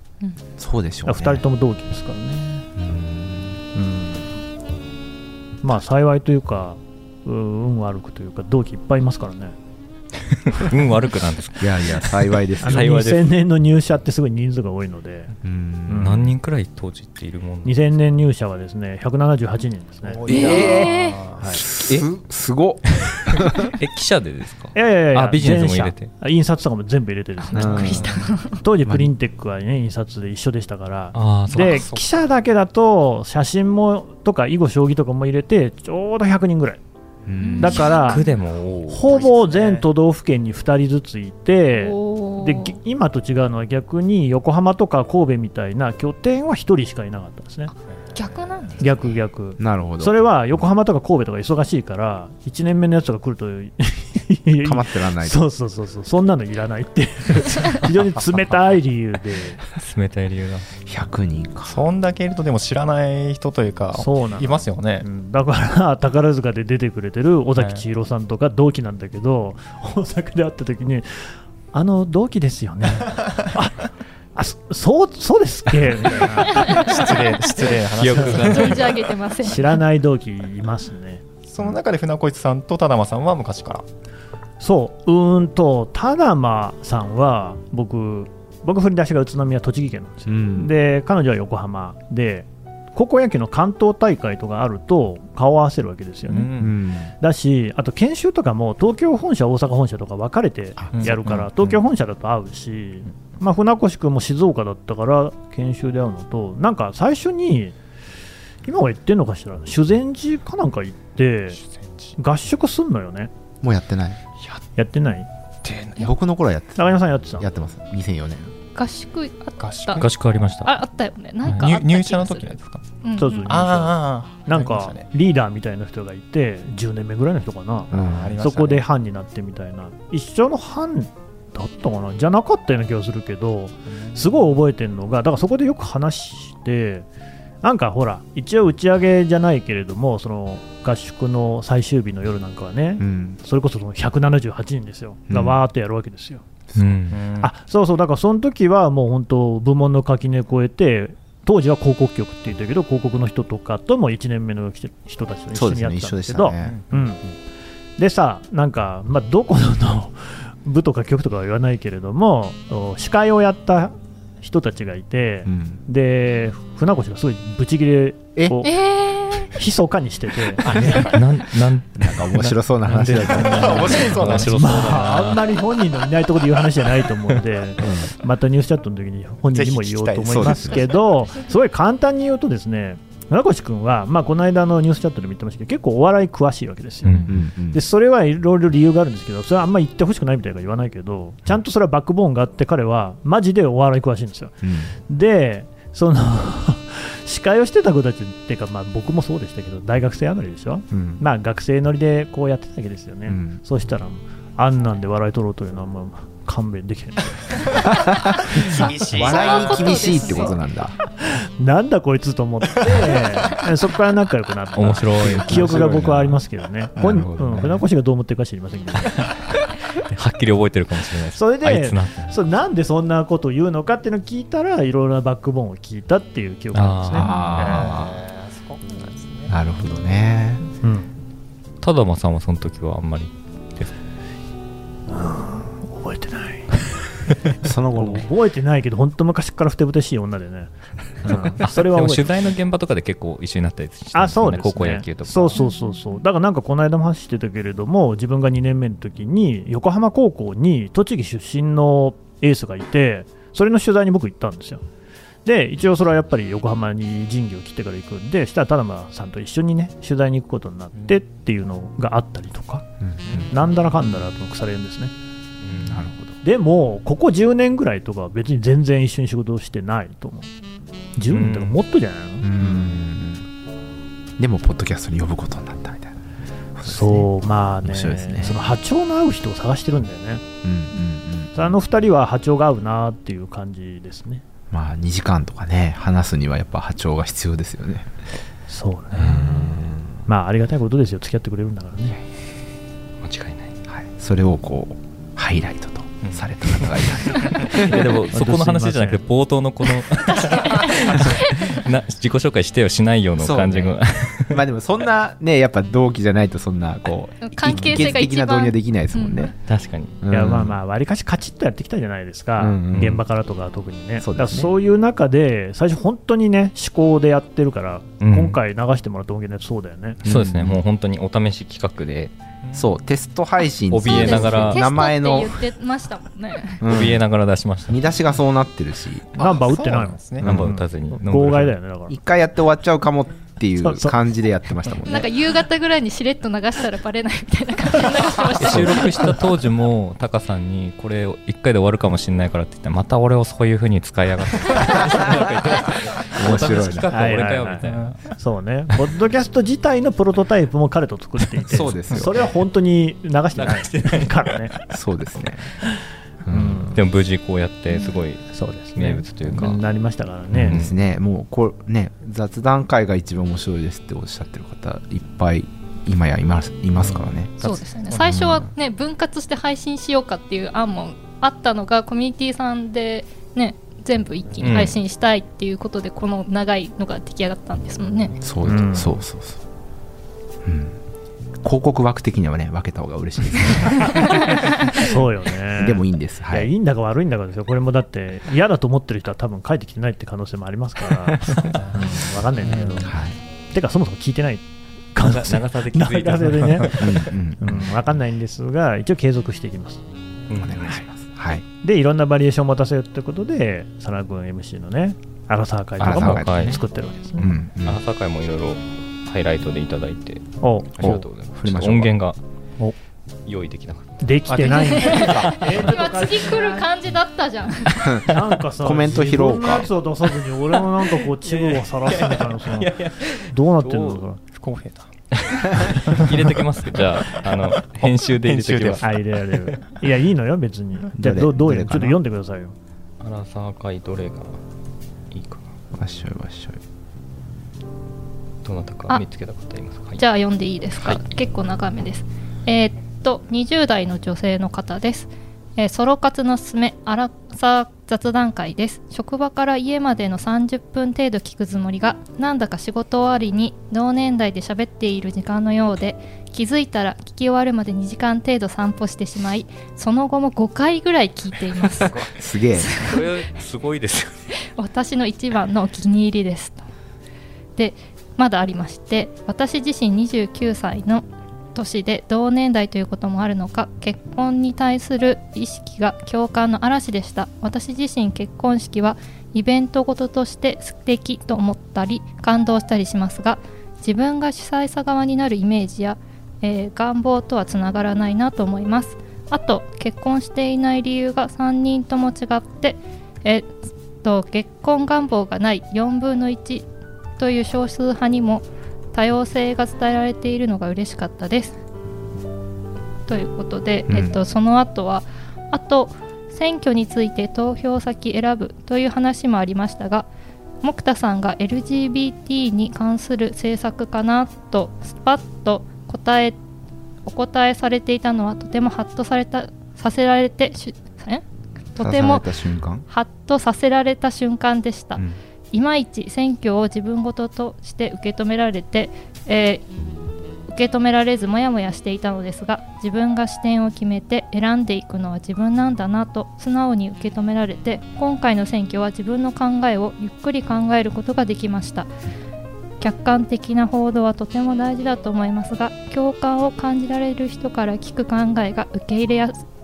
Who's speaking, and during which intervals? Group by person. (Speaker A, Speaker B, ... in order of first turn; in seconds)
Speaker A: 0.6-1.4, 2.8-3.6, 11.6-13.0, 15.4-16.3, 20.2-20.9, 21.5-23.7, 27.5-28.2, 37.2-38.0, 49.6-50.2, 54.6-55.4, 60.8-61.8, 90.3-90.7, 96.6-97.1, 100.8-101.8, 113.6-114.2, 116.0-118.5, 127.9-128.4, 143.0-143.4, 145.3-145.6, 155.5-156.8, 165.4-165.8, 171.9-174.5, 177.8-178.1, 180.1-180.9, 187.3-187.8, 194.6-194.9, 200.9-201.2, 203.3-203.6, 207.9-210.9, 215.4-216.4, 216.9-217.8, 227.2-228.2, 229.5-230.7, 237.6-238.3, 263.0-263.5, 265.8-266.4, 272.4-273.4, 274.4-276.1, 276.8-277.3, 277.8-278.6, 280.6-281.6, 284.7-288.1, 289.1-290.2, 293.9-298.1, 303.4-304.0, 304.5-309.5, 310.2-310.8, 312.6-313.2, 314.2-314.7, 320.2-320.8, 322.7-325.6, 326.8-327.3, 327.9-329.3, 330.4-330.7, 332.1-335.3, 338.6-339.0, 346.3-347.4, 351.7-352.5, 354.9-355.7, 356.4-356.9, 360.5-368.7, 378.4-379.6, 380.6-381.0, 381.6-385.2, 385.7-386.7, 391.3-392.0, 392.7-393.4, 397.0-397.9, 400.6-401.6, 406.0-406.8, 407.4-408.0, 411.0-412.2, 418.1-419.9, 431.2-432.2, 435.9-436.8, 462.4-463.0, 504.1-504.4, 522.0-523.0
Speaker B: 1.1-2.6, 3.7-4.3, 5.6-9.5, 12.6-15.3, 15.9-16.2, 17.6-20.7, 24.7-28.0, 28.6-36.8, 37.6-38.2, 38.9-47.7, 48.8-59.6, 63.9-76.8, 79.4-81.2, 84.6-96.5, 97.2-107.8, 108.6-111.6, 112.2-113.3, 114.8-115.3, 116.8-117.5, 123.2-137.1, 137.6-146.4, 147.4-157.2, 158.0-168.7, 169.5-171.1, 174.5-207.9, 211.2-219.2, 221.3-227.3, 230.8-231.1, 235.1-237.1, 237.9-242.3, 244.1-254.8, 255.4-262.9, 263.5-265.1, 266.4-270.5, 271.1-273.0, 276.8-280.4, 281.5-284.4, 288.7-292.2, 298.3-299.2, 310.3-320.2, 329.4-332.1, 333.8-334.2, 347.1-354.8, 356.5-357.0, 358.5-360.8, 378.6-379.2, 384.9-393.1, 393.7-394.6, 395.1-400.0, 401.8-407.5, 410.6-411.2, 414.2-416.9, 418.2-422.9, 423.5-424.4, 429.0-432.7
Speaker C: 10.4-13.2, 16.0-17.8, 23.8-26.1, 31.1-32.0, 37.7-39.2, 59.8-60.7, 78.0-79.0, 120.0-120.7, 146.8-147.2, 170.7-175.4, 187.0-187.3, 214.7-216.0, 220.1-222.3, 226.7-227.7, 231.8-233.9, 241.6-245.6, 265.6-266.0, 271.3-271.7, 293.2-293.7, 297.5-304.6, 309.7-310.2, 318.2-318.6, 320.2-322.3, 323.9-324.9, 326.8-328.0, 330.4-331.8, 338.6-348.2, 353.5-354.9, 356.9-359.8, 360.7-360.9, 374.6-375.0, 395.2-397.2, 400.5-401.0, 406.0-406.8, 407.8-410.4, 411.0-412.4, 413.4-414.4, 421.2-424.2, 425.4-429.2, 433.2-434.6, 435.3-435.7, 438.6-440.2, 462.0-462.2, 463.0-464.5
Speaker D: 20.0-21.6, 27.8-28.2, 39.0-39.9, 48.1-49.0, 61.6-65.0, 67.5-67.8, 76.5-79.0, 81.5-83.8, 96.3-96.7, 111.5-112.2, 115.6-116.1, 119.6-120.1, 121.5-122.8, 123.4-125.0, 127.9-128.8, 133.9-134.2, 147.1-147.5, 156.6-157.3, 173.2-174.6, 179.6-180.7, 208.6-210.5, 227.4-229.5, 322.6-322.9, 329.3-330.4, 347.8-348.1, 414.5-415.5, 424.5-425.1, 426.1-429.1
Speaker E: 20.3-21.2, 27.4-28.6, 37.4-38.2, 41.7-42.8, 48.1-48.9, 76.5-77.1, 78.3-79.7, 118.7-120.0, 120.6-123.6, 168.6-169.5, 208.7-210.6, 245.6-245.8, 300.4-301.8, 307.4-309.5, 324.0-326.8, 335.1-339.2, 367.6-378.4, 414.7-418.0, 440.2-463.3, 464.6-466.8, 467.8-493.7, 494.2-496.9, 497.4-501.8, 503.3-510.3, 510.8-516.6, 517.2-521.4, 521.9-522.5, 523.1-529.8, 530.7-542.1, 543.0-549.5